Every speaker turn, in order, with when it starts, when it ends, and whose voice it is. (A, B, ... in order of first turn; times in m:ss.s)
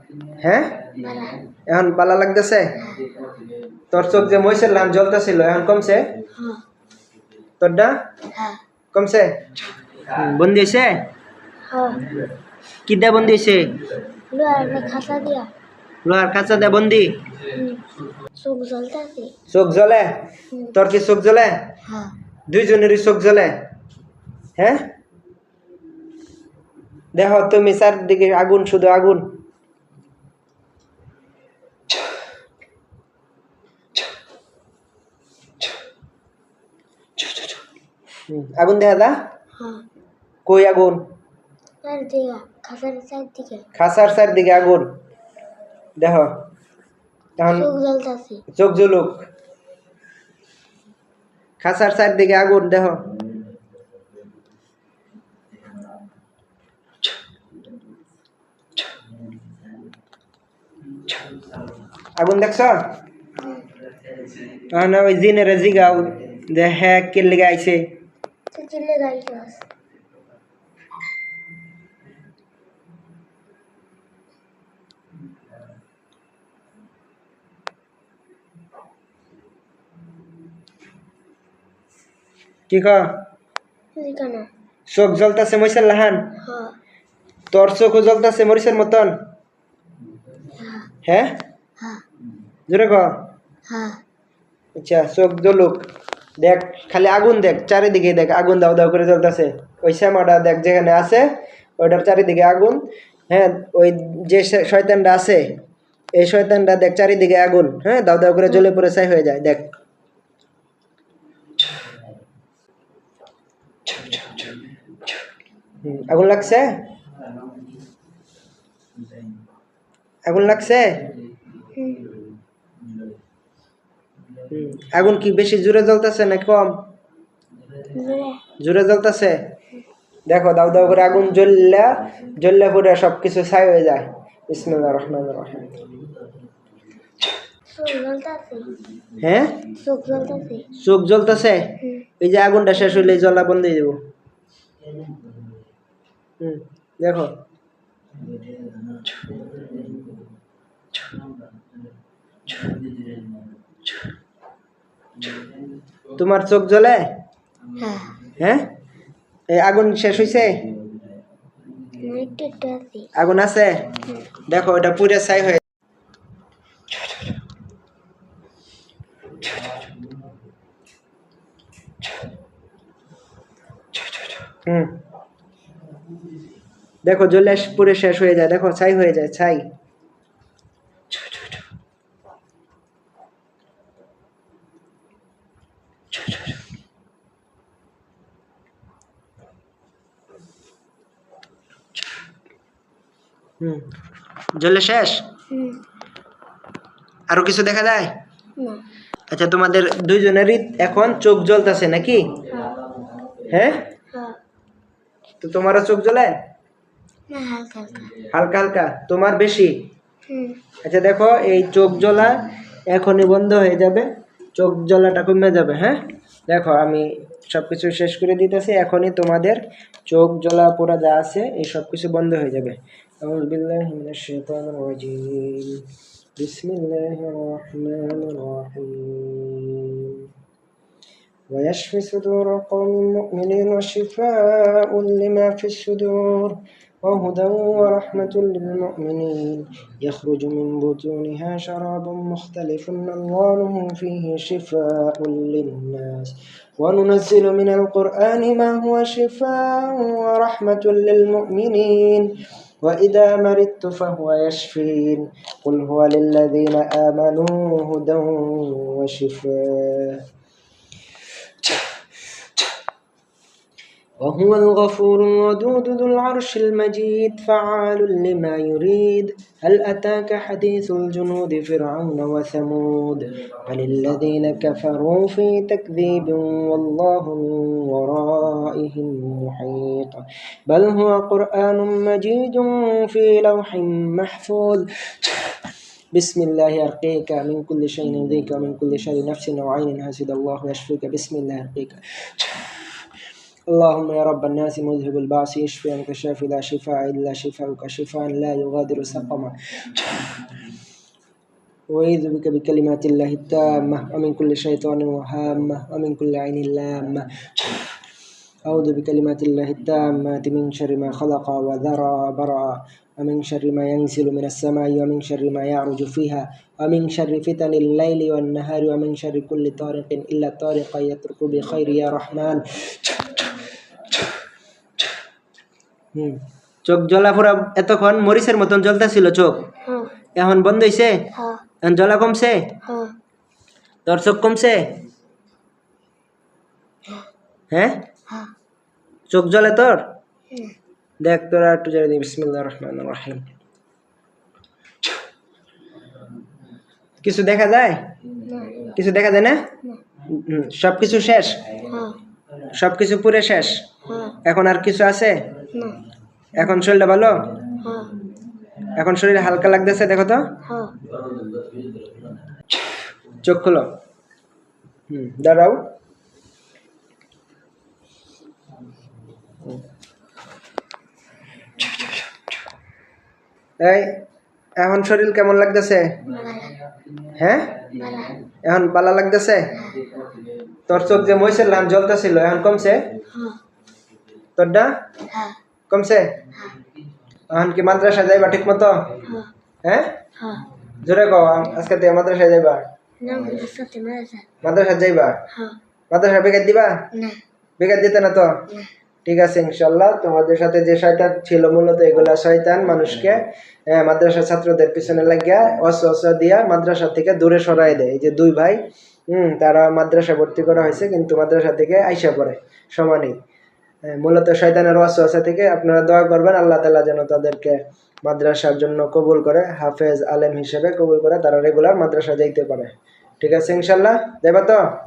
0:00.4-0:00.9 A
0:00.9-0:01.5 B
0:01.6-0:02.8 A
0:02.8-0:03.4 B
0:03.9-0:06.1 A
0:06.3-0:06.6 B
0:07.6-0:08.0 A
0:08.3-0:08.6 B
0:08.9-0:09.5 A
0:10.0-0:11.1 A
0:11.7-0:12.1 B
0:12.8-0:13.8 A
0:14.3-0:15.5 B
0:16.0-0:17.2 A
0:17.4-0:17.8 B
0:18.4-0:19.3 B
0:19.5-0:21.7 A
0:21.8-0:22.2 B
0:22.5-0:23.6 A
0:24.6-0:24.9 A
0:27.1-0:29.4 A
0:37.2-0:37.4 A
0:38.3-0:39.1 A
0:39.6-0:39.8 B
0:40.4-0:41.0 A
0:41.8-0:43.6 B
0:43.8-0:44.9 A
0:46.0-0:46.3 A
0:47.4-0:47.7 A
0:47.5-0:48.4 B
0:48.5-0:49.2 A
0:51.6-0:53.1 A
1:02.2-1:02.8 A
1:03.4-1:03.6 B
1:04.7-1:07.9 A
1:08.5-1:09.6 B
1:22.7-1:23.2 A
1:23.9-1:24.5 B
1:24.9-1:26.3 A
1:26.4-1:26.8 B
1:27.5-1:29.2 A
1:30.6-1:30.9 B
1:31.0-1:31.4 A
1:32.7-1:33.2 A
1:33.7-1:34.0 B
1:34.8-1:35.9 A
1:36.4-1:45.6 A
1:46.2-1:49.7 A
1:53.9-1:54.5 A
1:55.8-1:56.8 A
2:00.2-2:01.1 A
2:01.7-2:02.1 B
2:04.5-2:06.8 A
2:07.9-2:08.4 B
2:08.6-2:09.4 A
2:10.3-2:15.8 A
2:17.7-2:18.7 B
2:19.2-2:19.6 A
2:19.7-2:20.7 B
2:20.7-2:24.0 A
2:21.8-2:22.1 B
2:26.4-2:27.4 A
2:36.2-2:37.1 A
2:37.8-2:38.2 B
2:38.3-2:38.7 A
2:39.5-2:40.6 A
2:41.9-2:43.1 B
2:43.1-2:43.9 A
2:44.4-2:45.6 A
2:54.6-2:55.0 A
2:57.0-2:59.7 A
3:13.6-3:13.9 A
3:14.6-3:15.3 A
3:15.5-3:15.8 B
3:17.3-3:18.1 A
3:18.6-3:18.8 B
3:19.3-3:22.4 A
3:22.5-3:22.8 B
3:23.5-3:23.9 A
3:24.1-3:24.4 B
3:25.4-3:26.4 A
3:27.3-3:28.2 B
3:28.3-3:29.8 A
3:30.3-3:30.6 B
3:30.8-3:45.8 A
3:46.4-3:50.3 A
3:51.5-4:20.2 A
4:24.2-4:45.5 A
4:46.1-4:52.6 A
4:53.7-5:00.2 A
5:01.9-5:07.9 A
5:08.6-5:23.4 A
5:26.1-5:29.6 A
5:29.8-5:30.1 B
5:30.4-5:31.2 A
5:31.3-5:31.6 B
5:31.8-5:32.7 A
5:32.8-5:33.2 B
5:34.0-5:35.0 A
5:37.7-5:38.0 A
5:39.3-5:40.1 A
5:41.2-5:43.5 A
5:47.2-5:48.1 A
5:48.4-5:48.9 B
5:48.9-5:49.7 A
5:50.3-5:51.6 A
5:51.8-5:52.2 B
5:52.7-5:53.9 A
5:54.0-5:54.4 B
5:54.4-5:55.5 A
5:55.7-5:56.0 B
5:56.6-5:57.5 A
5:57.7-5:58.2 B
5:58.9-6:00.5 A
6:00.6-6:01.0 B
6:03.4-6:03.9 A
6:05.1-6:05.8 A
6:13.8-6:14.2 A
6:14.8-6:16.2 A
6:16.2-6:16.8 B
6:17.3-6:17.8 A
6:17.9-6:18.4 B
6:18.6-6:19.8 A
6:19.7-6:20.4 B
6:20.9-6:23.1 A
6:23.3-6:23.6 B
6:24.6-6:25.0 A
6:25.3-6:25.6 B
6:25.9-6:26.4 A
6:27.5-6:29.1 A
6:29.2-6:29.5 B
6:29.8-6:30.2 A
6:30.4-6:30.6 B
6:31.0-6:32.8 A
6:33.2-6:34.5 B
6:34.6-6:35.4 A
6:35.5-6:35.8 B
6:36.1-6:37.0 A
6:37.1-6:37.4 B
6:37.8-6:38.6 A
6:39.2-6:53.4 A
6:54.1-7:04.8 A